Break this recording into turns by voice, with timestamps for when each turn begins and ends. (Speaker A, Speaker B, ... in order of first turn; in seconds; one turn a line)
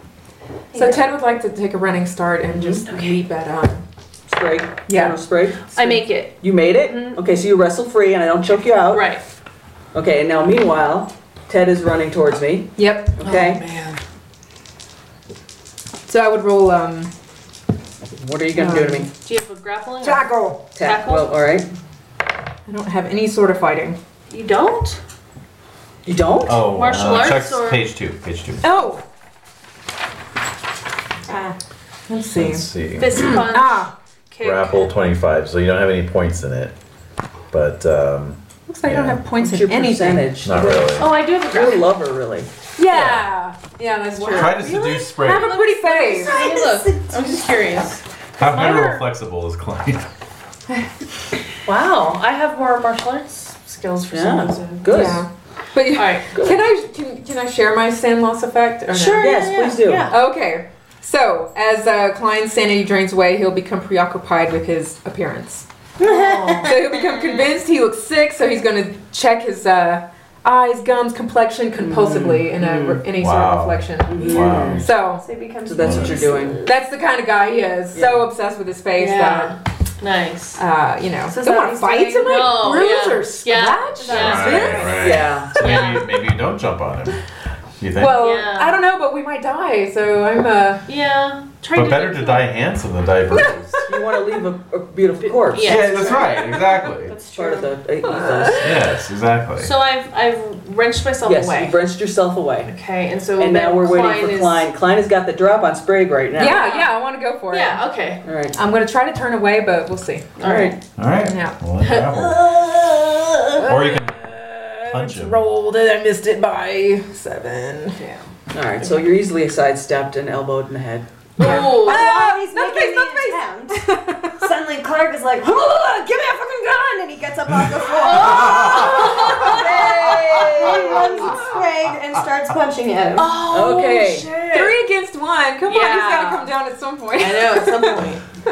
Speaker A: 0.7-1.1
Speaker B: 0.7-3.8
Speaker C: 2.5-2.9
Speaker C: 4.3-9.1
Speaker B: 4.9-5.2
Speaker A: 5.7-7.2
Speaker A: 8.9-9.2
Speaker C: 9.9-13.6
Speaker B: 12.8-14.0
Speaker B: 16.1-17.1
Speaker C: 18.2-19.1
Speaker B: 18.5-19.1
Speaker A: 19.2-21.3
Speaker B: 20.0-20.6
Speaker C: 20.7-21.7
Speaker B: 22.7-24.0
Speaker A: 24.3-25.0
Speaker C: 26.0-26.6
Speaker D: 26.4-28.6
Speaker A: 26.7-27.8
Speaker B: 28.6-29.0
Speaker E: 31.3-31.5
Speaker B: 32.1-33.9
Speaker D: 32.3-33.4
Speaker A: 33.0-34.9
Speaker D: 34.4-36.7
Speaker D: 37.5-39.2
Speaker B: 38.7-40.3
Speaker C: 39.3-42.5
Speaker D: 40.4-41.1
Speaker A: 41.0-41.9
Speaker B: 42.8-46.4
Speaker D: 42.9-43.2
Speaker A: 44.3-49.0
Speaker D: 44.3-45.6
Speaker E: 46.1-47.2
Speaker D: 48.4-50.1
Speaker A: 51.6-55.2
Speaker C: 54.1-55.2
Speaker B: 54.9-59.4
Speaker A: 55.9-56.3
Speaker C: 56.3-56.6
Speaker A: 58.9-60.2
Speaker C: 59.2-60.1
Speaker B: 60.1-65.7
Speaker E: 66.0-66.9
Speaker A: 66.0-67.1
Speaker B: 66.6-75.2
Speaker C: 71.8-73.0
Speaker D: 73.2-74.8
Speaker C: 74.1-74.8
Speaker E: 75.1-76.7
Speaker C: 75.7-76.6
Speaker D: 75.8-76.2
Speaker B: 76.6-79.5
Speaker C: 77.9-78.3
Speaker A: 79.0-80.6
Speaker B: 80.6-85.1
Speaker E: 81.3-82.4
Speaker A: 82.2-86.0
Speaker D: 84.0-87.2
Speaker E: 84.1-85.0
Speaker C: 84.4-85.6
Speaker D: 87.8-88.2
Speaker B: 88.0-90.8
Speaker A: 88.1-88.8
Speaker A: 90.9-92.5
Speaker D: 91.7-93.7
Speaker B: 93.3-94.0
Speaker C: 93.8-96.0
Speaker A: 95.5-96.7
Speaker D: 95.6-97.1
Speaker E: 97.1-97.7
Speaker C: 97.3-98.8
Speaker B: 98.2-98.6
Speaker D: 98.6-99.7
Speaker A: 99.6-101.8
Speaker C: 101.2-102.7
Speaker A: 102.6-104.7
Speaker C: 103.4-106.7
Speaker B: 106.3-107.8
Speaker A: 106.5-106.9
Speaker A: 107.5-108.2
Speaker C: 108.2-108.5
Speaker B: 108.5-110.3
Speaker A: 110.4-110.7
Speaker C: 110.4-110.8
Speaker D: 111.0-112.5
Speaker B: 111.2-111.6
Speaker A: 111.8-112.5
Speaker B: 113.5-118.0
Speaker D: 113.7-114.2
Speaker D: 114.9-115.4
Speaker A: 118.0-118.2
Speaker C: 118.5-121.8
Speaker A: 121.4-122.2
Speaker B: 121.4-124.3
Speaker E: 121.4-133.4
Speaker A: 128.0-129.9
Speaker C: 129.0-131.2
Speaker B: 130.4-131.5
Speaker A: 133.2-134.8
Speaker C: 133.4-134.3
Speaker B: 134.5-138.0
Speaker A: 135.7-136.5
Speaker A: 137.2-138.2